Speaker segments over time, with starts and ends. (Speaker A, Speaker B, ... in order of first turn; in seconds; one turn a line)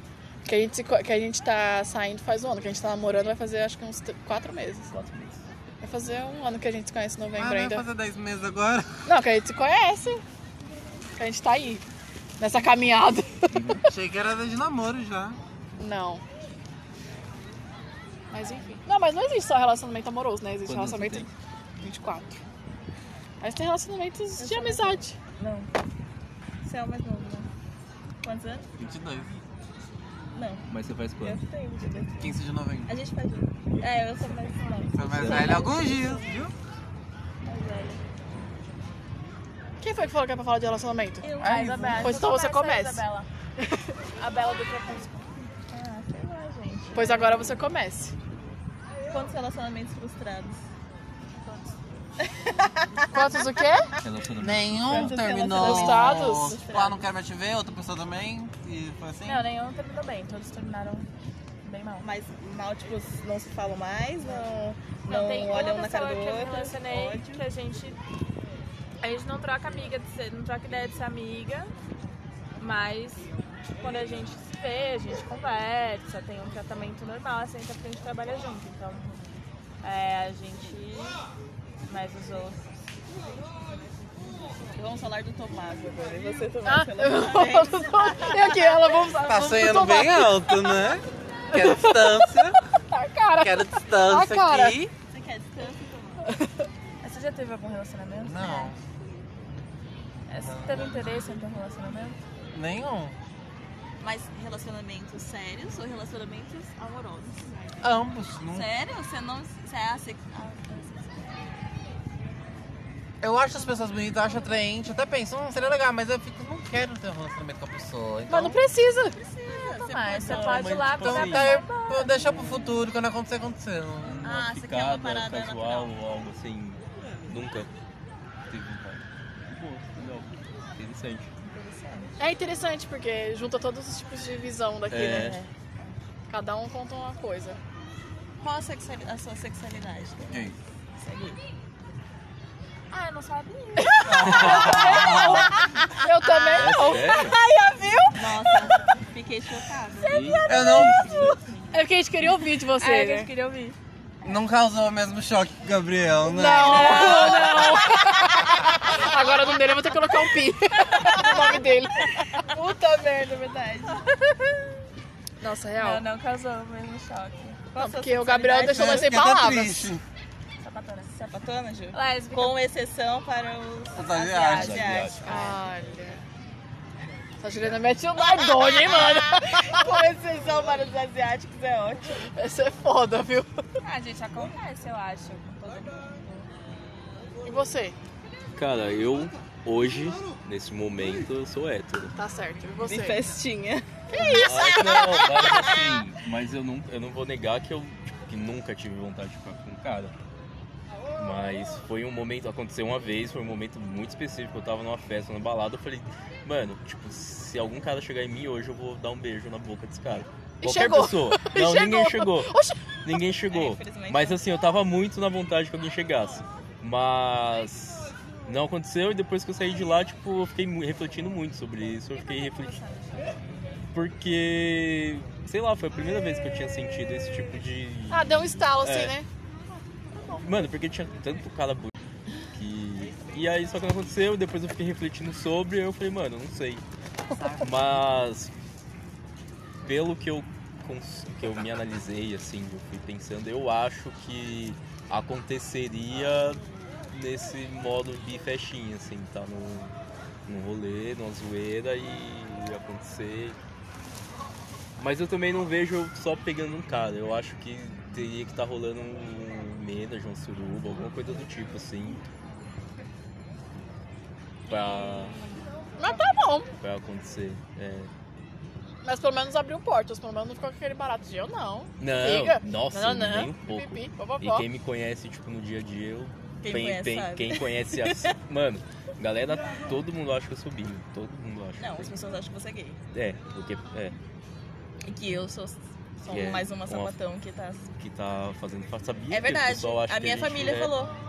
Speaker A: 0.5-4.9
Speaker B: 4.9-5.4
Speaker A: 5.8-7.8
Speaker C: 7.3-8.9
Speaker A: 9.1-10.2
Speaker A: 11.2-11.8
Speaker A: 12.4-13.9
Speaker B: 13.5-13.8
Speaker C: 13.9-15.4
Speaker A: 15.8-16.2
Speaker A: 18.3-21.3
Speaker B: 20.6-21.3
Speaker A: 21.8-22.4
Speaker A: 23.4-25.2
Speaker D: 24.4-25.7
Speaker D: 26.6-27.5
Speaker D: 28.2-28.7
Speaker C: 28.8-29.3
Speaker D: 30.3-30.6
Speaker B: 30.7-31.4
Speaker D: 31.2-32.3
Speaker C: 32.2-33.0
Speaker D: 32.9-36.5
Speaker E: 34.5-35.7
Speaker C: 34.9-36.5
Speaker B: 35.1-35.6
Speaker D: 37.5-38.0
Speaker A: 39.8-41.3
Speaker D: 41.2-42.2
Speaker E: 41.4-43.3
Speaker A: 41.9-43.0
Speaker E: 44.2-45.4
Speaker D: 45.7-47.2
Speaker A: 46.9-48.1
Speaker E: 47.0-47.5
Speaker D: 49.1-50.6
Speaker E: 51.4-51.8
Speaker D: 52.2-53.5
Speaker A: 53.1-53.9
Speaker B: 54.0-55.2
Speaker C: 54.4-59.4
Speaker D: 54.9-57.0
Speaker A: 55.5-56.6
Speaker E: 59.3-61.1
Speaker E: 61.6-62.1
Speaker D: 62.0-67.4
Speaker E: 65.1-68.0
Speaker E: 69.0-71.7
Speaker E: 72.6-79.1
Speaker E: 79.8-81.2
Speaker E: 81.9-82.7
Speaker D: 84.7-88.9
Speaker A: 86.7-90.7
Speaker C: 89.2-92.6
Speaker A: 91.5-94.8
Speaker C: 93.4-94.9
Speaker D: 95.1-96.2
Speaker A: 96.3-96.7
Speaker E: 97.0-98.7
Speaker C: 98.2-98.8
Speaker E: 100.3-102.2
Speaker C: 100.4-101.2
Speaker C: 102.5-103.2
Speaker D: 104.0-107.6
Speaker C: 107.8-108.7
Speaker D: 108.5-111.2
Speaker C: 113.2-118.6
Speaker A: 118.3-119.2
Speaker D: 119.2-120.8
Speaker E: 119.5-122.4
Speaker B: 120.3-121.7
Speaker C: 120.9-124.2
Speaker B: 124.0-127.7
Speaker D: 124.2-125.9
Speaker B: 128.5-131.3
Speaker D: 131.4-132.2
Speaker A: 132.2-135.4
Speaker B: 134.9-135.4
Speaker A: 136.3-137.6
Speaker D: 138.4-141.4
Speaker C: 140.3-140.6
Speaker E: 142.9-145.6
Speaker A: 143.8-148.8
Speaker B: 144.1-144.8
Speaker C: 144.4-145.5
Speaker B: 146.5-147.4
Speaker D: 148.2-150.2
Speaker E: 150.0-151.3
Speaker B: 150.1-151.4
Speaker C: 150.5-151.2
Speaker D: 150.8-151.8
Speaker A: 151.7-153.3
Speaker E: 152.7-153.8
Speaker C: 154.2-157.3
Speaker A: 156.2-162.3
Speaker E: 156.4-158.2
Speaker D: 161.1-161.7
Speaker D: 162.4-164.1
Speaker A: 165.4-166.0
Speaker E: 165.8-167.7
Speaker D: 167.7-169.2
Speaker A: 167.8-169.9
Speaker C: 168.7-170.0
Speaker E: 170.6-171.1
Speaker D: 171.0-175.4
Speaker E: 171.9-172.6
Speaker C: 173.9-174.8
Speaker E: 174.1-175.1
Speaker B: 174.5-175.6
Speaker A: 175.3-176.2
Speaker A: 177.4-179.9
Speaker D: 178.2-182.2
Speaker A: 182.4-183.5
Speaker E: 183.8-186.5
Speaker A: 187.4-188.0
Speaker B: 188.6-192.2
Speaker A: 192.2-193.2
Speaker D: 192.8-193.8
Speaker A: 194.1-196.0
Speaker B: 194.1-200.1
Speaker B: 201.2-212.5
Speaker A: 210.6-212.8
Speaker B: 213.0-222.8
Speaker D: 213.5-214.4
Speaker E: 222.6-223.3
Speaker B: 223.9-229.2
Speaker A: 228.1-229.3
Speaker B: 230.3-231.9
Speaker B: 232.5-236.8
Speaker B: 237.4-238.5
Speaker B: 239.8-249.9
Speaker B: 250.5-253.6
Speaker B: 255.0-262.3
Speaker B: 264.7-265.4
Speaker D: 264.7-265.6
Speaker A: 266.0-266.7
Speaker B: 266.8-268.1
Speaker A: 269.0-274.7
Speaker B: 272.0-282.1
Speaker D: 276.6-278.3
Speaker D: 281.8-283.0
Speaker B: 283.1-284.2
Speaker D: 285.0-287.9
Speaker B: 286.3-287.1
Speaker B: 288.0-291.0
Speaker D: 289.3-291.2